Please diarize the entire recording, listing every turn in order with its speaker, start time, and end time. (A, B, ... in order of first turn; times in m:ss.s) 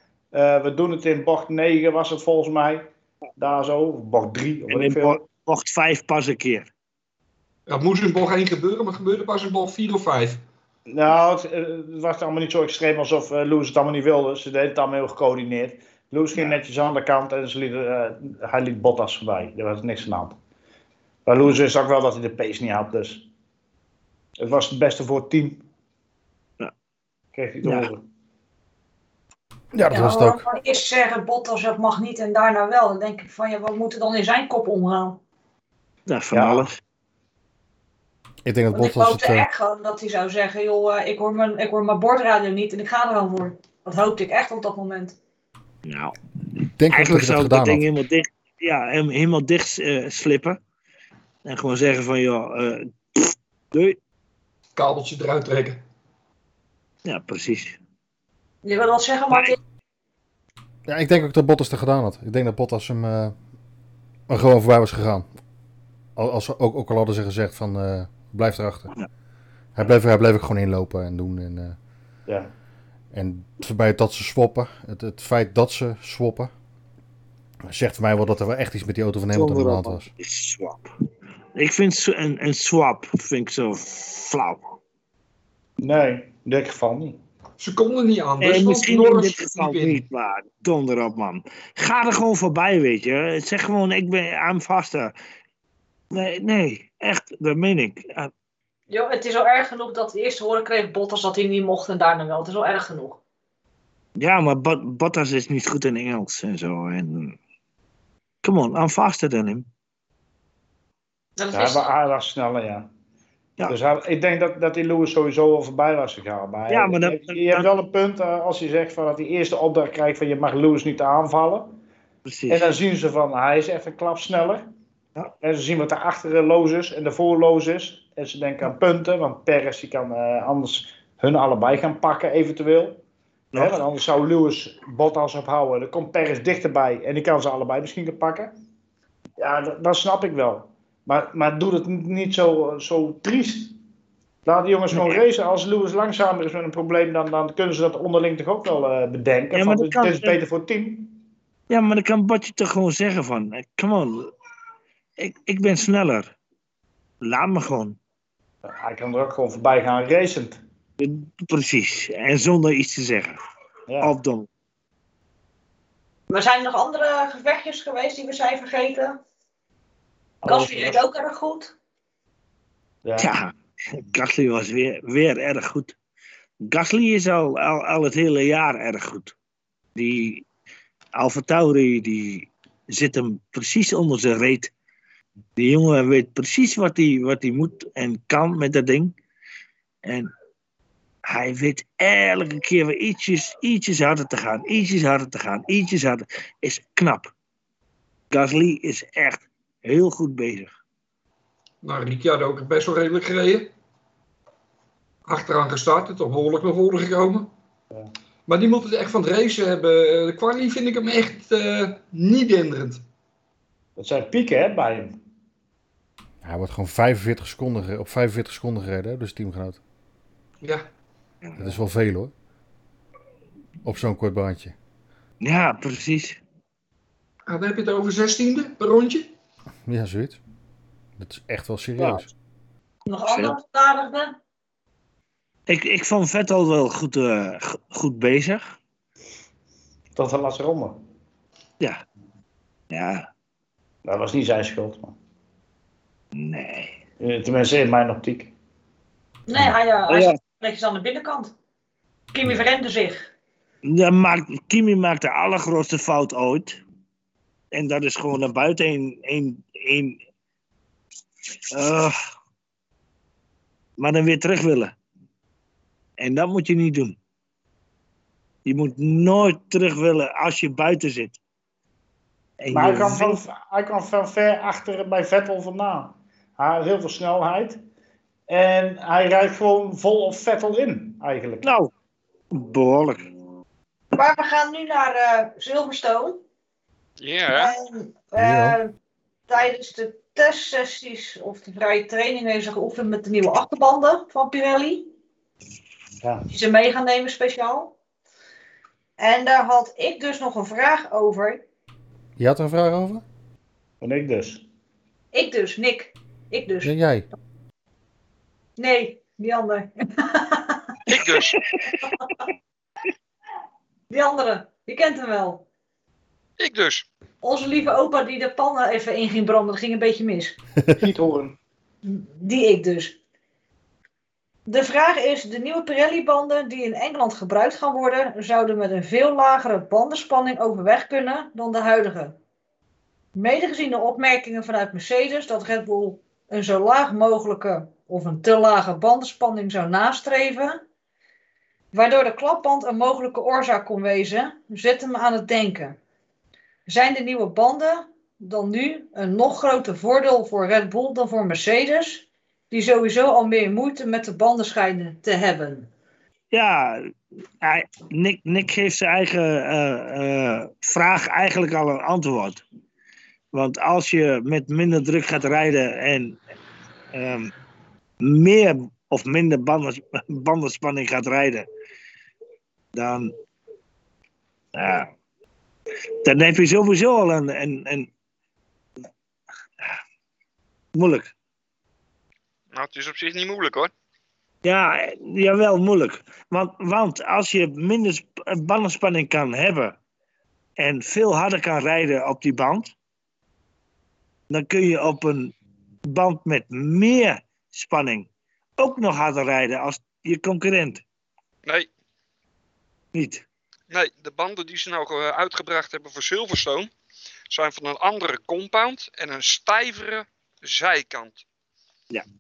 0:00.3-0:05.2 A
0:04.7-0:06.7 B
0:07.7-0:10.4 C
0:10.9-0:20.4 A
0:21.3-0:23.3 A
0:24.4-0:25.6 A
0:27.3-0:28.0 A
0:27.6-0:27.9 B
0:29.7-0:30.4 D
0:29.9-0:35.2 E
0:36.1-0:36.8 B
0:36.3-0:36.7 A
0:38.4-0:39.5 D
0:38.7-0:45.2 E
0:45.8-0:50.6 B
0:46.8-0:47.9 D
0:51.4-0:54.0 B
0:54.8-0:55.8 C
0:57.0-0:57.8 B
0:58.6-0:59.6 E
0:59.3-0:59.6 B
1:00.9-1:03.3 D
1:04.3-1:05.3 D
1:06.2-1:08.9 D
1:09.8-1:11.8 D
1:13.1-1:16.5 D
1:17.7-1:20.1 D
1:19.3-1:20.9 B
1:21.6-1:24.8 B
1:25.8-1:27.2 A
1:27.6-1:30.0 C
1:28.4-1:35.1 B
1:36.1-1:38.3 B
1:38.9-1:43.2 E
1:44.2-1:47.4 B
1:48.4-1:49.7 B
1:51.4-1:51.9 E
1:51.5-1:52.9 A
1:53.7-2:01.7 A
1:56.7-1:57.7 B
2:02.2-2:02.7 B
2:02.5-2:04.6 A
2:05.4-2:13.0 A
2:13.5-2:13.8 B
2:13.6-2:18.5 A
2:19.4-2:23.7 A
2:24.4-2:31.2 A
2:24.9-2:25.2 B
2:29.5-2:30.4 B
2:31.7-2:34.3 B
2:35.2-2:36.3 B
2:37.2-2:38.0 B
2:38.6-2:40.6 A
2:41.0-2:43.4 B
2:44.0-2:44.5 B
2:46.3-2:49.2 E
2:50.4-2:51.0 A
2:50.4-2:51.7 E
2:53.0-2:53.3 A
2:53.2-2:56.0 B
2:56.7-2:59.3 B
3:00.0-3:00.4 B
3:01.2-3:04.7 B
3:05.6-3:09.2 B
3:10.0-3:10.3 B
3:11.3-3:17.3 B
3:18.3-3:20.7 B
3:21.8-3:23.7 C
3:25.3-3:27.5 C
3:28.5-3:33.0 C
3:34.0-3:35.2 A
3:36.4-3:39.8 D
3:41.4-3:41.8 B
3:41.6-3:42.3 D
3:43.8-3:44.7 D
3:45.4-3:46.4 B
3:47.5-3:49.3 C
3:49.9-3:50.4 D
3:51.2-3:52.3 D
3:53.0-3:54.4 E
3:53.3-3:53.6 B
3:55.7-3:58.8 B
4:00.1-4:01.0 A
4:02.9-4:03.3 B
4:04.0-4:05.1 A
4:06.3-4:07.0 B
4:07.2-4:08.5 A
4:09.5-4:11.5 E
4:10.1-4:10.4 B
4:12.3-4:13.3 E
4:13.8-4:16.8 B
4:17.7-4:20.2 B
4:21.7-4:22.1 B
4:24.0-4:25.0 B
4:26.2-4:27.2 B
4:28.6-4:31.4 B
4:32.6-4:33.4 B
4:32.7-4:37.8 A
4:38.5-4:41.7 A
4:41.6-4:41.9 B
4:42.5-4:43.2 B
4:44.1-4:46.4 E
4:47.2-4:47.7 C
4:47.5-4:48.9 E
4:48.4-4:48.8 D
4:49.5-4:55.1 E
4:56.5-4:58.0 E
4:59.2-5:01.6 E
5:02.4-5:03.2 D
5:04.0-5:04.6 A
5:05.3-5:06.9 E
5:06.8-5:07.3 D
5:08.8-5:10.9 E
5:11.1-5:11.6 C
5:11.1-5:12.1 B
5:14.1-5:15.6 E
5:16.6-5:17.1 C
5:17.4-5:20.6 E
5:20.9-5:21.6 A
5:22.0-5:23.2 E
5:24.7-5:32.4 E
5:33.3-5:40.8 E
5:41.9-5:46.0 E
5:46.9-5:55.9 E
5:56.5-5:57.1 B
5:57.6-6:02.6 B
6:03.5-6:06.4 B
6:07.1-6:07.5 B
6:08.2-6:11.7 B
6:12.9-6:13.3 B
6:14.7-6:15.1 B
6:16.2-6:18.1 B
6:21.0-6:21.3 B
6:22.7-6:23.9 C
6:24.6-6:30.0 B
6:30.8-6:33.0 B
6:34.5-6:35.6 B
6:36.1-6:41.0 B
6:41.6-6:41.9 C
6:43.1-6:43.4 B
6:43.9-6:46.9 C
6:47.5-6:51.4 C